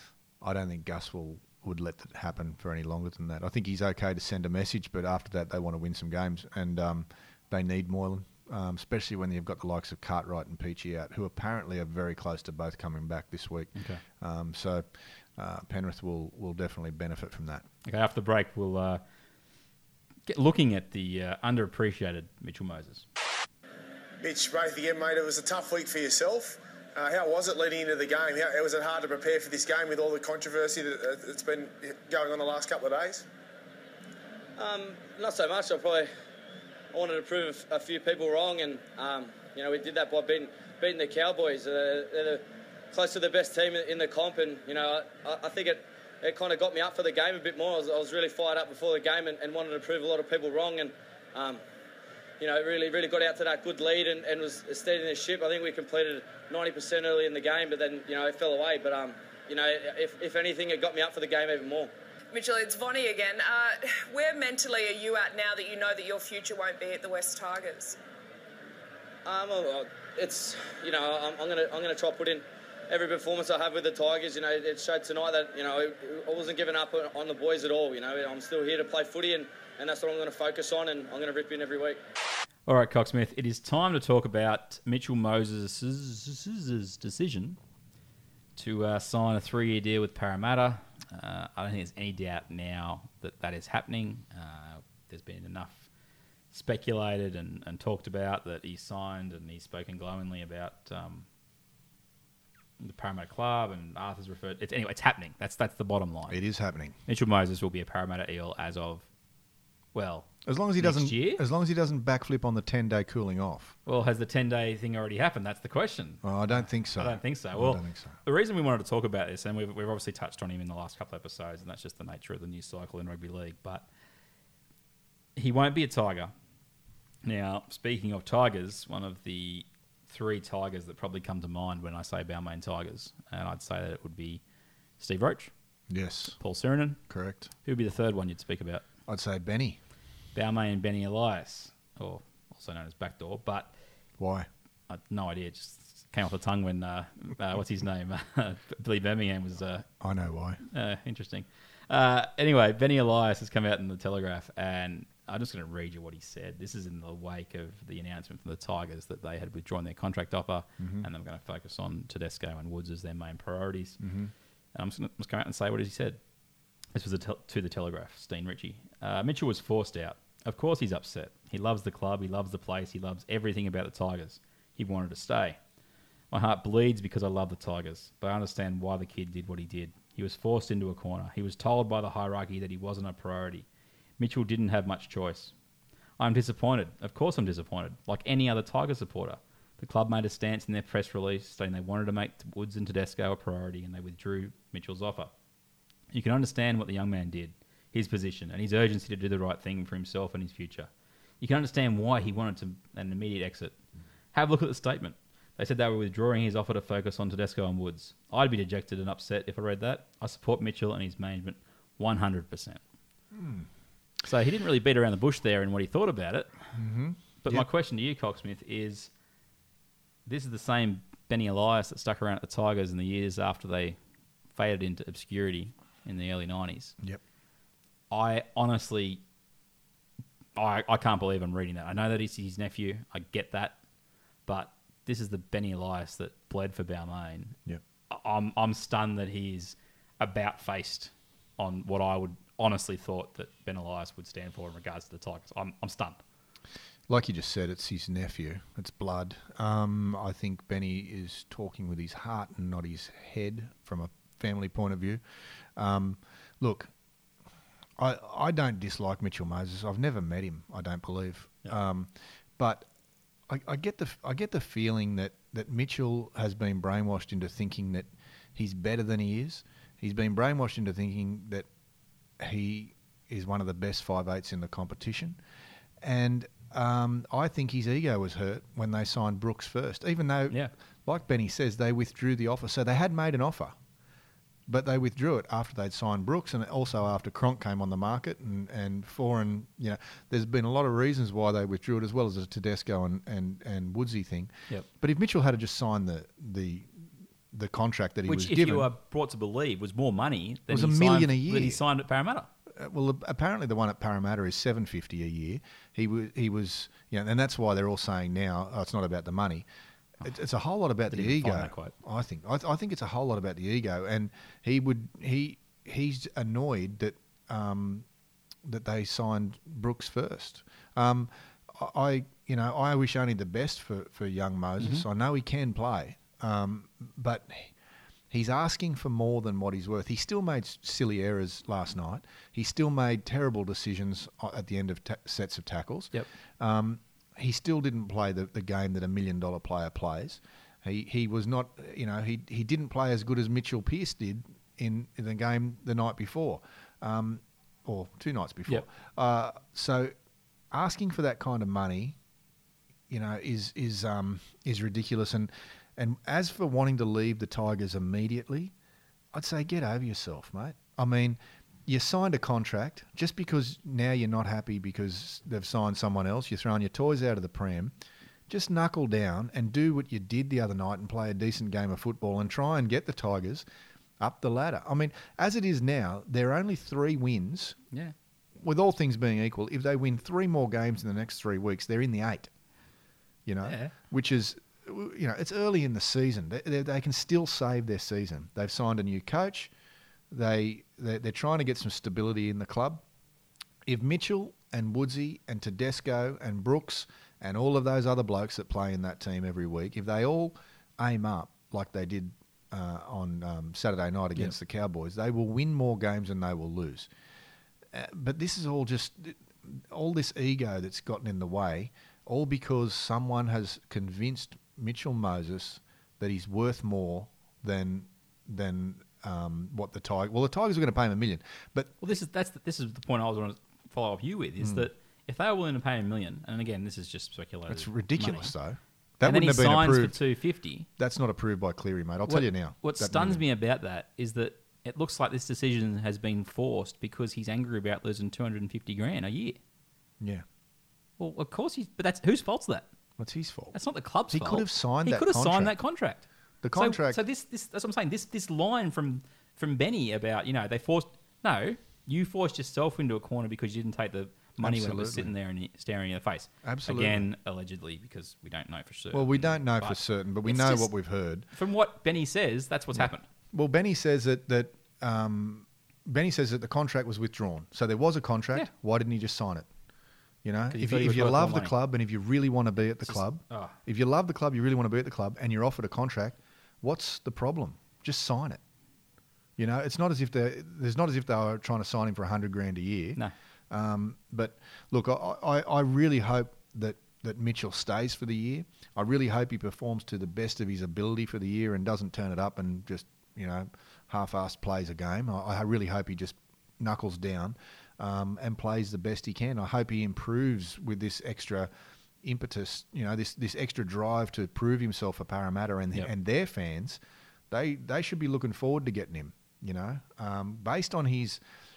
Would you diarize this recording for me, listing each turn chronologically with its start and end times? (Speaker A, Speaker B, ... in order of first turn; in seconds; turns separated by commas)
Speaker A: 0.4-17.6, Speaker B: 13.7-14.0, Speaker B: 17.8-19.0, Speaker B: 20.3-23.1, Speaker C: 24.2-33.2, Speaker D: 34.6-36.1, Speaker D: 36.9-51.6, Speaker D: 52.4-61.9, Speaker E: 62.3-68.0, Speaker D: 69.2-82.0, Speaker B: 82.7-87.6, Speaker B: 88.5-95.9, Speaker B: 96.5-101.2, Speaker B: 102.8-106.4, Speaker A: 106.3-107.0, Speaker B: 107.1-109.1, Speaker B: 109.9-111.4, Speaker A: 110.4-113.7, Speaker B: 113.8-123.8, Speaker A: 116.2-118.2, Speaker B: 125.3-126.3, Speaker B: 127.2-134.4, Speaker B: 135.0-135.5, Speaker A: 135.9-136.4, Speaker B: 136.4-137.0, Speaker A: 137.1-137.5, Speaker B: 137.6-138.8, Speaker A: 139.1-139.8, Speaker B: 140.3-143.7, Speaker A: 144.2-144.5, Speaker B: 144.9-149.9, Speaker A: 150.0-150.6, Speaker B: 150.7-164.0, Speaker A: 160.8-161.1, Speaker A: 164.0-164.3, Speaker B: 164.7-166.2, Speaker B: 166.9-175.6, Speaker B: 176.3-183.6, Speaker B: 184.2-185.5, Speaker B: 186.2-195.3, Speaker B: 196.1-200.9, Speaker B: 201.4-203.7, Speaker B: 204.3-212.8, Speaker A: 213.3-213.7, Speaker B: 214.2-216.5, Speaker A: 216.7-217.7, Speaker B: 217.4-219.1, Speaker B: 220.2-224.0, Speaker B: 224.5-226.9, Speaker B: 228.1-229.2, Speaker B: 230.6-233.8, Speaker B: 234.4-237.6, Speaker B: 238.1-246.2, Speaker A: 247.1-255.2, Speaker A: 255.7-256.9, Speaker A: 258.0-262.9, Speaker A: 263.5-271.7, Speaker A: 272.4-275.4, Speaker A: 276.0-283.8, Speaker A: 284.7-298.9, Speaker B: 298.3-302.5, Speaker A: 300.7-301.8, Speaker A: 302.7-309.6, Speaker A: 310.2-318.1, Speaker B: 311.1-311.9, Speaker A: 318.6-327.7, Speaker B: 324.8-325.0, Speaker A: 328.3-350.1, Speaker A: 350.7-352.2, Speaker A: 353.1-358.7, Speaker A: 359.3-367.9, Speaker A: 368.5-373.6, Speaker A: 374.2-377.8, Speaker A: 378.6-382.5, Speaker A: 383.4-389.7, Speaker B: 383.6-383.9, Speaker A: 390.3-393.0, Speaker A: 393.9-407.1, Speaker A: 407.9-421.9, Speaker B: 422.0-428.5, Speaker A: 424.6-424.9, Speaker A: 427.7-430.2, Speaker B: 429.2-430.9, Speaker A: 431.0-433.4, Speaker B: 432.3-439.6, Speaker B: 441.2-442.9, Speaker A: 443.2-443.8, Speaker B: 443.7-446.2, Speaker A: 444.3-445.7, Speaker A: 446.6-447.2, Speaker B: 446.8-460.9, Speaker A: 454.6-455.3, Speaker A: 456.6-457.3, Speaker A: 459.1-461.5, Speaker B: 461.5-463.2, Speaker A: 462.9-469.7, Speaker A: 470.4-478.6, Speaker B: 470.7-471.7, Speaker B: 473.0-473.8, Speaker A: 479.6-501.7, Speaker A: 502.2-507.0, Speaker A: 507.5-511.4